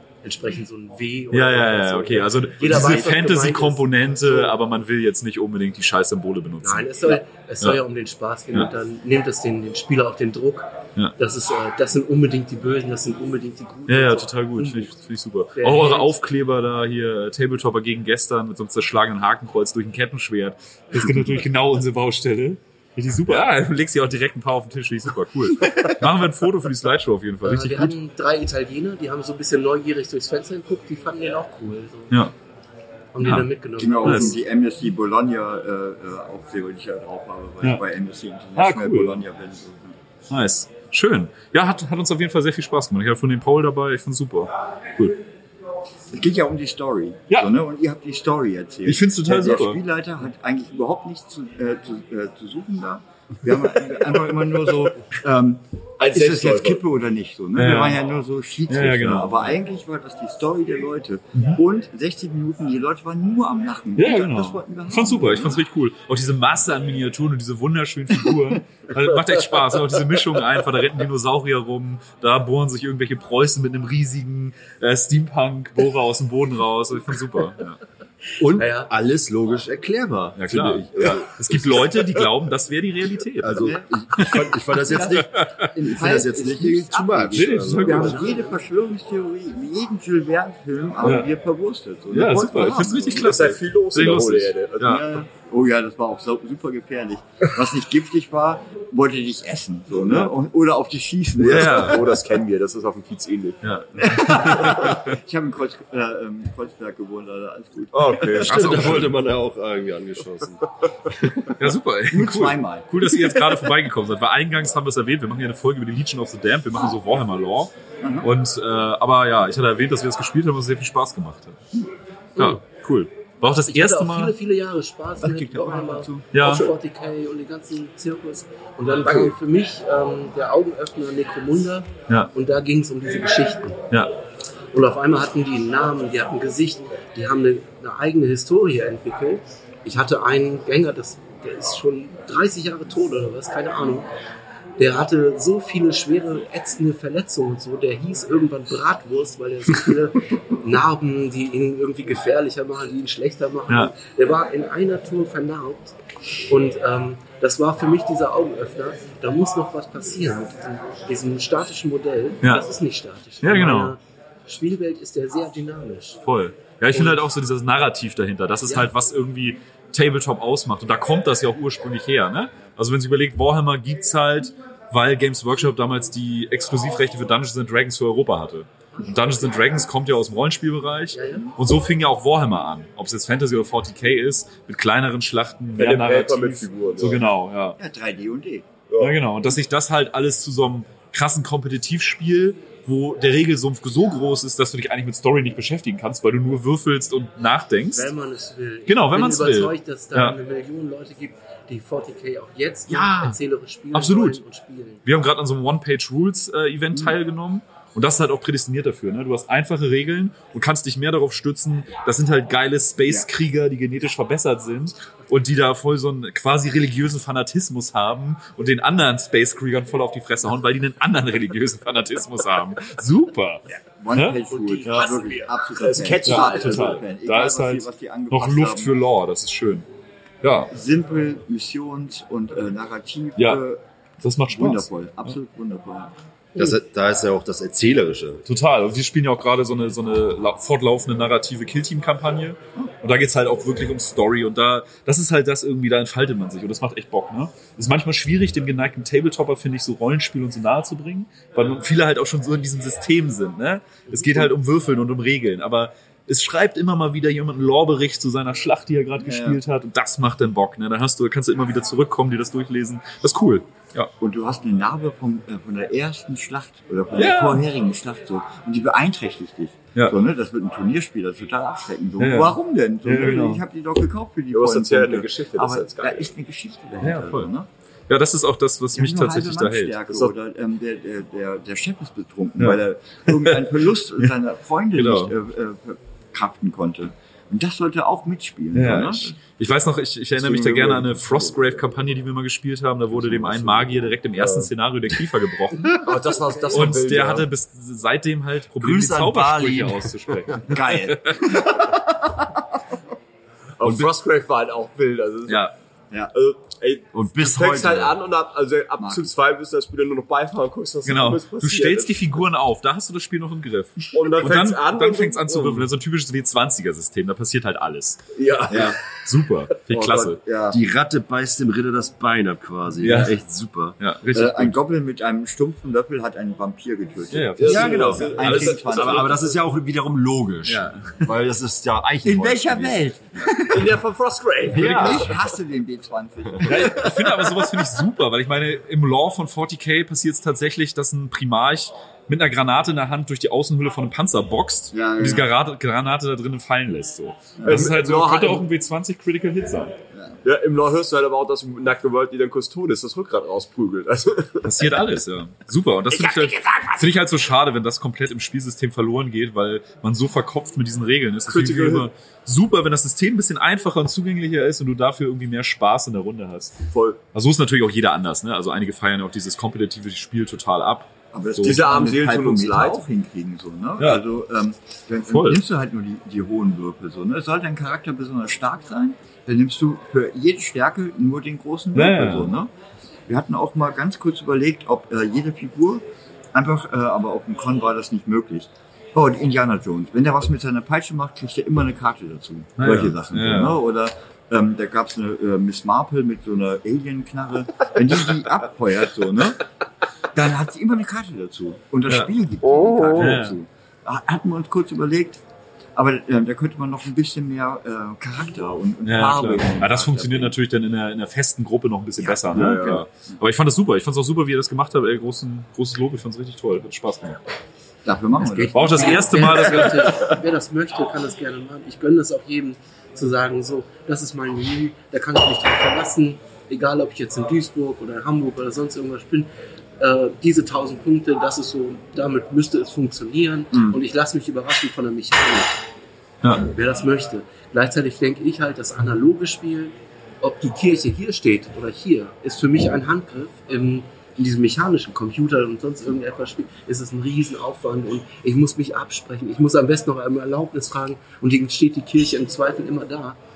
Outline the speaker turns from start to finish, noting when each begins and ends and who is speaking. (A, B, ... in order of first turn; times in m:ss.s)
0:00.2-0:04.6 A
0:01.3-0:07.0 B
0:06.6-0:15.0 A
0:13.9-0:27.9 B
0:15.6-0:16.1 A
0:27.4-0:32.2 A
0:33.1-0:34.4 A
0:33.2-0:33.5 B
0:33.8-0:40.0 C
0:34.0-0:34.4 B
0:38.6-0:39.3 B
0:40.3-0:45.2 B
0:46.1-1:05.6 C
0:47.3-0:47.6 B
0:48.8-0:49.8 B
0:56.0-0:56.8 D
0:57.6-0:58.0 B
0:58.7-0:59.6 B
1:01.4-1:01.6 B
1:04.0-1:17.8 B
1:18.4-1:21.9 E
1:18.5-1:18.9 A
1:20.4-1:24.4 B
1:23.4-1:28.2 E
1:23.6-1:33.4 C
1:25.2-1:25.7 B
1:27.3-1:28.2 B
1:27.9-1:28.6 A
1:31.0-1:31.3 B
1:32.1-1:35.0 B
1:33.1-1:35.2 D
1:34.8-1:42.1 C
1:40.0-1:40.3 D
1:41.4-1:43.8 D
1:41.4-1:42.0 B
1:43.6-1:45.1 B
1:44.0-1:48.6 C
1:47.9-1:49.1 D
1:48.4-1:51.4 E
1:48.4-1:49.2 B
1:51.6-2:01.6 B
1:52.1-1:53.0 C
1:58.0-1:58.3 C
2:02.4-2:04.4 B
2:03.7-2:13.8 A
2:05.2-2:06.3 C
2:06.3-2:06.7 B
2:14.7-2:24.1 A
2:24.8-2:36.0 A
2:33.7-2:33.9 B
2:36.5-2:46.2 A
2:43.4-2:44.0 B
2:46.2-3:07.8 B
2:46.9-2:47.2 A
3:01.1-3:01.5 A
3:05.8-3:07.2 D
3:07.8-3:08.7 C
3:08.9-3:09.2 D
3:09.0-3:18.1 B
3:17.9-3:25.1 A
3:18.9-3:20.4 B
3:22.9-3:23.4 B
3:23.9-3:24.4 B
3:25.0-3:44.4 B
3:44.0-3:48.9 C
3:44.5-3:45.5 A
3:44.9-3:47.0 D
3:46.2-3:49.9 B
3:50.4-3:50.7 B
3:50.7-3:53.8 C
3:53.4-3:53.6 B
3:54.2-3:55.4 B
3:54.5-3:56.1 C
3:56.6-3:58.4 E
3:58.5-4:24.1 B
4:14.1-4:14.5 C
4:19.2-4:19.6 C
4:24.2-4:37.7 C
4:27.2-4:27.7 B
4:32.2-4:33.6 B
4:34.5-4:36.3 D
4:37.0-4:37.5 B
4:38.1-4:40.0 B
4:39.0-4:49.4 C
4:40.1-4:40.3 D
4:42.6-4:44.3 B
4:44.9-4:45.4 B
4:48.7-4:56.1 B
4:50.4-4:51.6 C
4:53.2-4:54.0 C
4:54.4-4:54.7 D
4:56.0-4:57.5 D
4:56.7-5:01.6 B
4:58.8-5:00.4 E
5:00.6-5:02.5 C
5:03.8-5:05.7 D
5:05.5-5:05.8 B
5:06.3-5:12.5 D
5:07.1-5:08.2 E
5:09.0-5:09.3 C
5:11.0-5:18.2 B
5:14.1-5:15.9 D
5:18.4-5:19.0 D
5:18.7-5:19.0 C
5:18.8-5:20.4 B
5:19.8-5:20.4 D
5:20.3-5:20.8 C
5:20.7-5:24.0 E
5:23.0-5:23.4 B
5:24.0-5:24.8 B
5:24.3-5:29.3 C
5:27.3-5:29.2 B
5:27.6-5:29.6 D
5:27.7-5:33.1 E
5:30.7-5:31.1 B
5:32.2-5:34.0 C
5:33.7-5:35.4 D
5:34.7-5:35.3 B
5:34.7-5:37.6 C
5:34.8-5:35.2 E
5:36.6-5:50.0 B
5:44.9-5:45.5 C
5:47.6-5:47.9 C
5:47.7-5:48.7 D
5:50.1-5:50.4 C
5:50.4-5:54.7 D
5:54.6-6:06.8 B
6:01.5-6:02.1 D
6:06.9-6:07.2 D
6:07.3-6:11.8 B
6:11.3-6:22.7 C
6:11.6-6:13.0 D
6:14.0-6:14.2 B
6:15.3-6:15.6 B
6:21.9-6:22.6 B
6:23.3-6:39.7 C
6:32.8-6:33.8 B
6:40.4-6:45.4 C
6:42.6-6:43.4 D
6:43.1-6:43.6 B
6:46.0-6:50.6 C
6:49.0-6:57.4 B
6:52.2-6:53.0 C
6:52.5-6:53.0 D
6:58.0-6:59.8 C
6:58.4-7:09.5 A
6:58.8-7:00.3 B
7:10.0-7:15.8 A
7:16.6-7:33.4 A